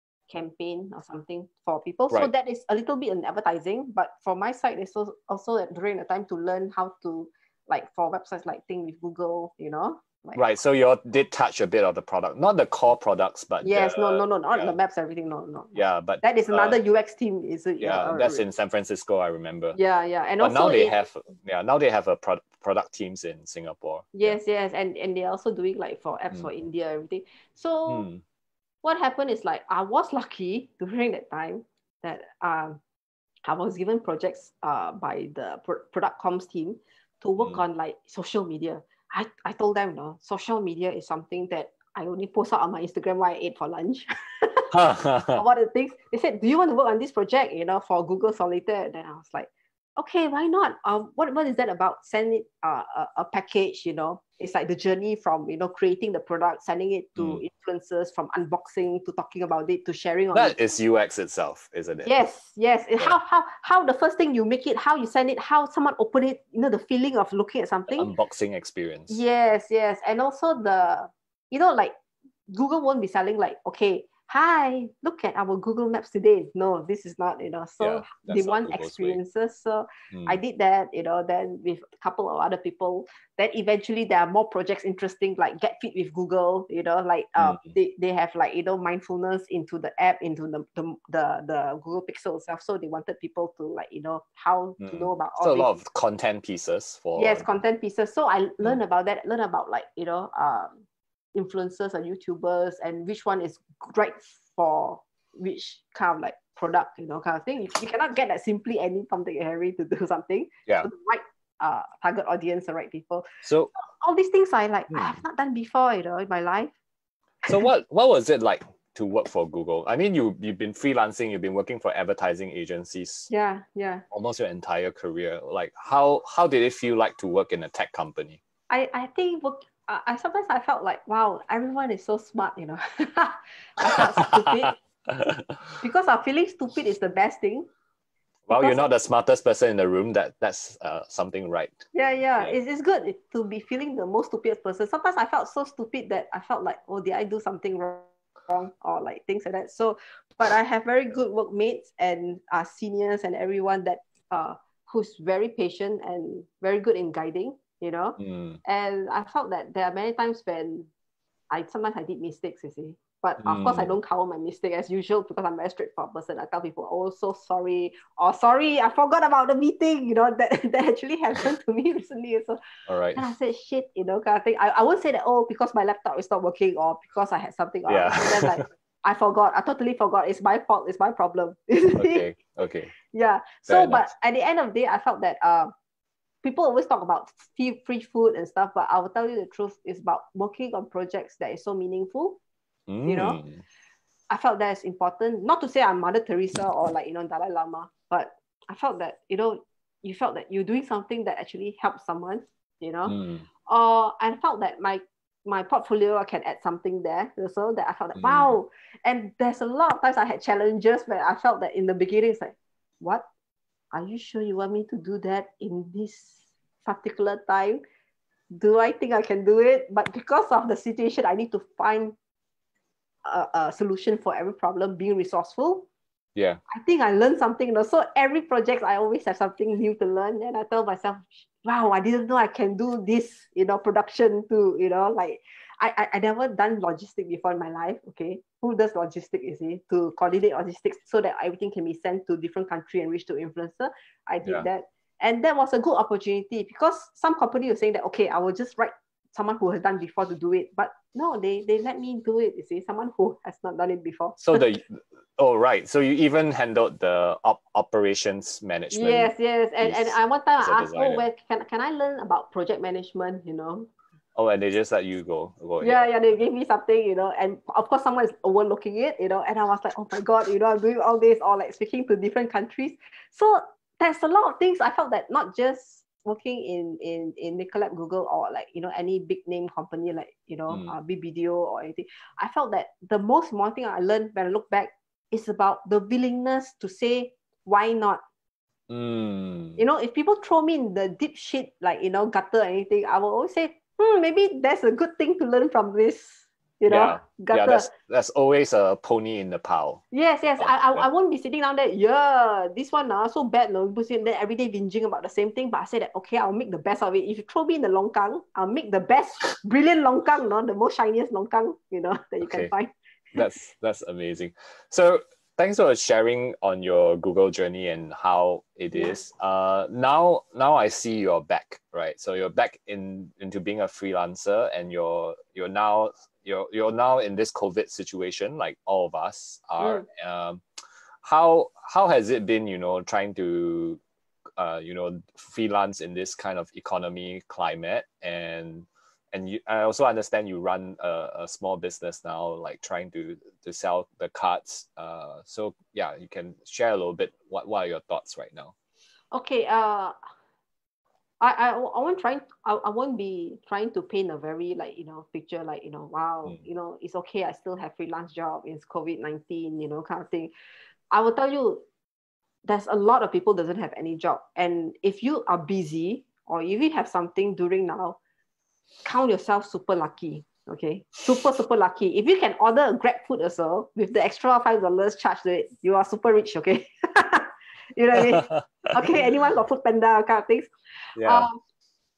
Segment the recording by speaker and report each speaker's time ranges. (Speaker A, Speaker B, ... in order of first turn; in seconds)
Speaker A: 0.3-10.4, 13.6-18.4, 19.8-20.9, 24.1-28.1, 28.8-32.8, 33.5-44.7, 45.3-60.5, 62.0-68.1, 69.1-71.9, 72.5-95.7, 97.2-100.8, 101.3-113.2, 113.8-116.7, 123.3-124.0, 128.7-134.7, 135.8-137.7, 138.5-138.8, 141.9-160.9, 161.5-172.6, 173.1-182.2, 183.1-185.7, 186.4-192.4, 193.1-193.4, 194.3-213.2, 213.9-217.8, 218.5-222.1, 223.2-225.8, 226.7-254.6, 258.9-263.9, 265.8-288.2, 289.8-297.9, 300.1-313.4, 329.8-330.1, 349.3-350.2, 351.4-360.5, 361.1-361.8, 362.6-368.2, 369.0-381.6
Speaker B: 10.3-14.8, 15.7-16.8, 17.8-19.8, 20.4-24.4, 27.9-28.2, 37.4-37.6, 44.7-45.4, 57.2-57.4, 60.3-62.2, 67.9-69.2, 77.8-79.2, 80.1-80.4, 87.4-87.7, 94.8-97.5, 113.4-113.7, 114.9-115.2, 117.4-123.3, 124.1-128.4, 133.8-135.7, 138.5-141.9, 158.2-158.6, 163.4-163.9, 172.9-173.3, 177.9-178.7, 181.9-182.9, 183.7-184.1, 192.9-193.6, 203.1-203.5, 208.2-208.6, 254.4-261.2, 264.4-266.1, 280.7-280.9, 288.9-289.8, 296.9-300.0, 300.6-301.1, 312.4-312.7, 313.3-330.6, 331.2-334.0, 334.6-348.7, 378.1-379.3, 381.1-381.5